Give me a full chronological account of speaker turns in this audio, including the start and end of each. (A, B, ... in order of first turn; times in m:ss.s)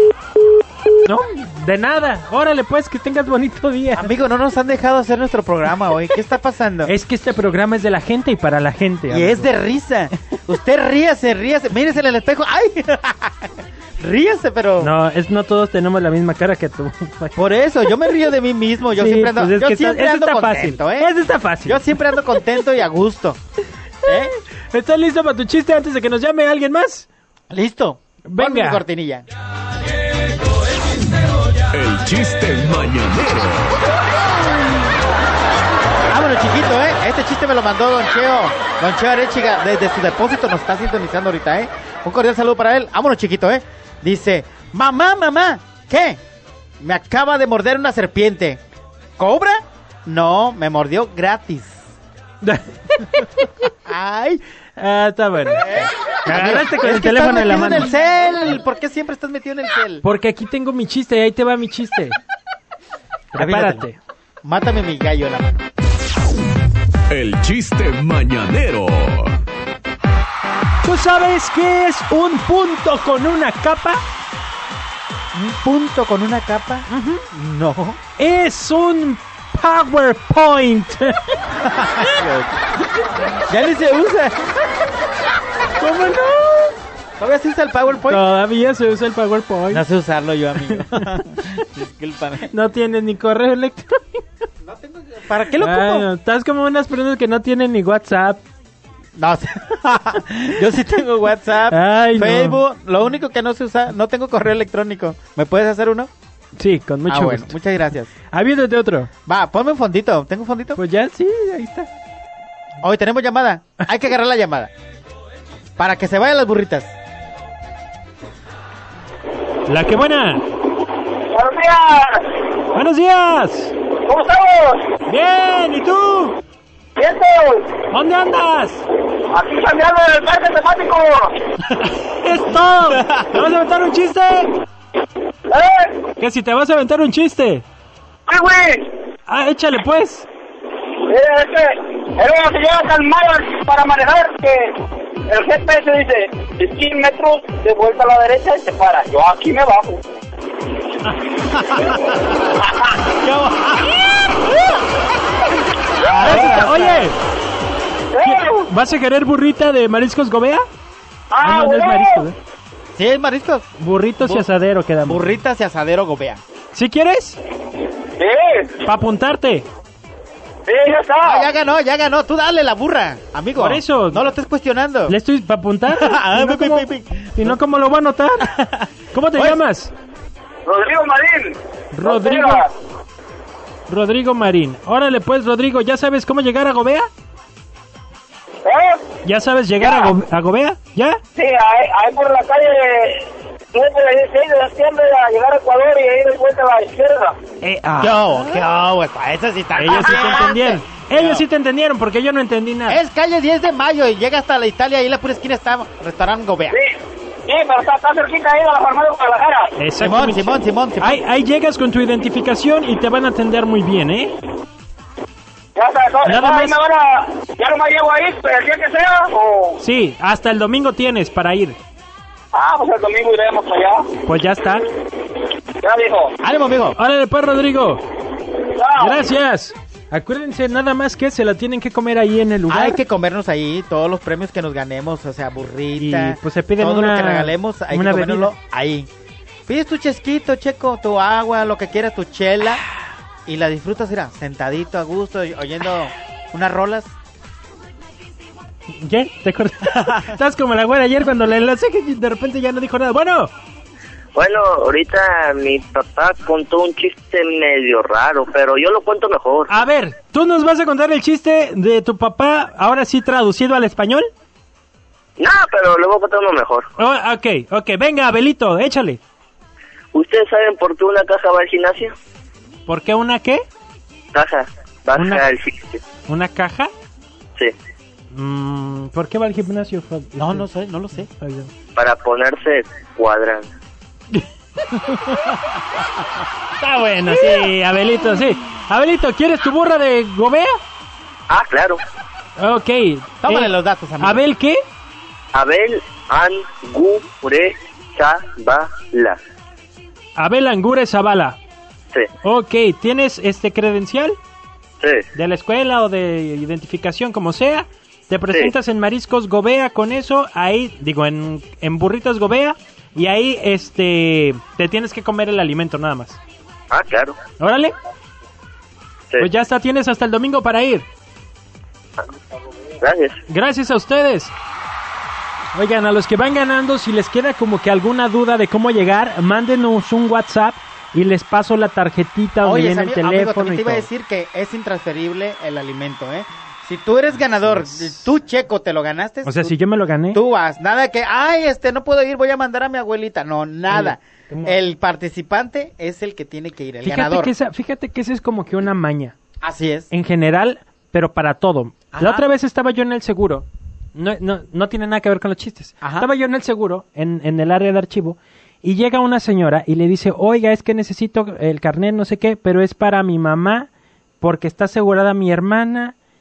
0:01.0-0:04.1 A
0:03.9-0:06.9 B
0:06.8-0:09.5 A
0:09.1-0:14.9 B
0:14.8-0:17.4 A
0:17.4-0:23.4 B
0:18.9-0:21.9 A
0:24.0-0:24.3 B
0:24.7-0:27.1 A
0:27.5-0:29.2 B
0:28.3-0:28.8 A
0:31.7-0:33.8 C
0:36.1-0:46.2 B
0:46.8-0:48.6 B
0:49.2-0:51.8 B
0:52.4-0:53.5 A
0:53.9-0:54.4 B
0:54.8-0:55.7 A
0:55.5-1:00.0 B
0:56.2-0:57.9 A
1:00.0-1:02.2 A
1:03.3-1:03.8 B
1:03.3-1:04.0 A
1:04.4-1:05.6 B
1:07.1-1:09.4 C
1:10.8-1:14.0 A
1:15.3-1:18.0 B
1:16.9-1:17.2 A
1:18.2-1:21.2 A
1:21.6-1:22.6 B
1:23.5-1:24.5 B
1:25.8-1:26.7 A
1:27.2-1:28.2 B
1:28.0-1:29.8 A
1:29.7-1:32.5 B
1:30.7-1:31.2 A
1:32.5-1:34.2 A
1:34.6-1:36.1 B
1:35.6-1:38.4 A
1:39.2-1:46.1 B
1:41.7-1:42.6 A
1:46.6-1:47.6 A
1:47.1-1:48.1 B
1:48.3-1:49.1 A
1:49.3-1:50.8 B
1:50.8-1:51.9 A
1:52.8-1:54.7 B
1:55.8-1:56.9 B
1:59.7-2:00.4 A
2:01.3-2:02.3 D
2:02.7-2:03.7 A
2:04.1-2:04.9 D
2:05.1-2:06.4 A
2:07.0-2:07.7 D
2:07.9-2:08.8 A
2:09.3-2:11.4 D
2:11.7-2:14.5 A
2:15.5-2:16.0 D
2:16.2-2:17.6 A
2:18.3-2:18.8 D
2:19.3-2:20.3 A
2:21.1-2:30.1 D
2:31.7-2:32.4 B
2:33.1-2:34.0 B
2:36.0-2:37.1 B
2:36.2-2:37.2 A
2:38.2-2:38.5 D
2:38.2-2:40.6 A
2:41.4-2:42.2 D
2:41.4-2:42.4 A
2:42.9-2:43.7 B
2:43.8-2:45.4 A
2:44.2-2:44.5 B
2:45.0-2:46.4 B
2:46.7-2:47.4 A
2:48.2-2:48.8 D
2:48.8-2:49.6 A
2:50.7-2:51.4 D
2:51.2-2:55.2 B
2:53.5-2:54.2 A
2:55.1-2:58.5 A
2:55.9-2:57.6 B
2:58.4-2:59.6 B
2:59.1-2:59.9 A
3:00.8-3:02.7 D
3:01.9-3:02.6 A
3:03.9-3:07.1 A
3:08.6-3:09.1 D
3:09.2-3:11.2 A
3:09.8-3:10.1 D
3:11.4-3:17.4 D
3:17.6-3:18.6 A
3:18.0-3:21.4 B
3:19.8-3:23.0 A
3:22.9-3:26.8 B
3:27.5-3:29.7 D
3:29.8-3:34.3 A
3:30.0-3:31.2 B
3:35.8-3:39.8 D
3:36.2-3:36.8 A
3:39.8-3:41.8 A
3:42.5-3:44.1 D
3:44.2-3:44.8 A
3:45.8-3:46.3 D
3:46.4-3:47.0 B
3:47.0-3:48.0 A
3:48.8-3:49.2 D
3:49.0-3:53.0 A
3:52.7-3:59.1 B
3:56.0-3:58.5 A
3:59.7-4:02.8 B
4:03.4-4:07.1 B
4:08.9-4:13.5 A
4:09.8-4:10.4 B
4:14.3-4:19.7 E
4:19.7-4:24.3 A
4:25.4-4:26.9 E
4:27.0-4:29.2 A
4:30.1-4:32.2 E
4:32.9-4:33.6 A
4:34.3-4:36.0 E
4:35.2-4:35.5 A
4:36.3-4:36.9 A
4:38.3-4:40.7 A
4:40.4-4:41.3 B
4:41.2-4:41.7 A
4:42.0-4:43.7 E
4:44.3-4:45.6 A
4:46.8-4:50.7 A
4:51.5-4:52.0 E
4:52.6-4:54.8 A
4:53.4-4:54.4 B
4:55.5-4:59.4 E
5:00.4-5:01.6 A
5:02.4-5:04.4 A
5:05.3-5:16.4 A
5:16.9-5:17.4 E
5:17.6-5:17.9 A
5:19.4-5:21.1 A
5:23.0-5:23.4 E
5:23.5-5:24.5 A
5:25.7-5:34.0 A
5:32.6-5:39.8 B
5:37.5-5:38.2 A
5:39.4-5:40.4 A
5:40.3-5:47.5 B
5:43.9-5:44.7 A
5:47.0-5:49.4 A
5:49.6-5:50.1 B
5:50.1-6:03.9 A
5:52.1-5:52.4 B
5:56.0-5:56.3 B
6:04.4-6:06.1 A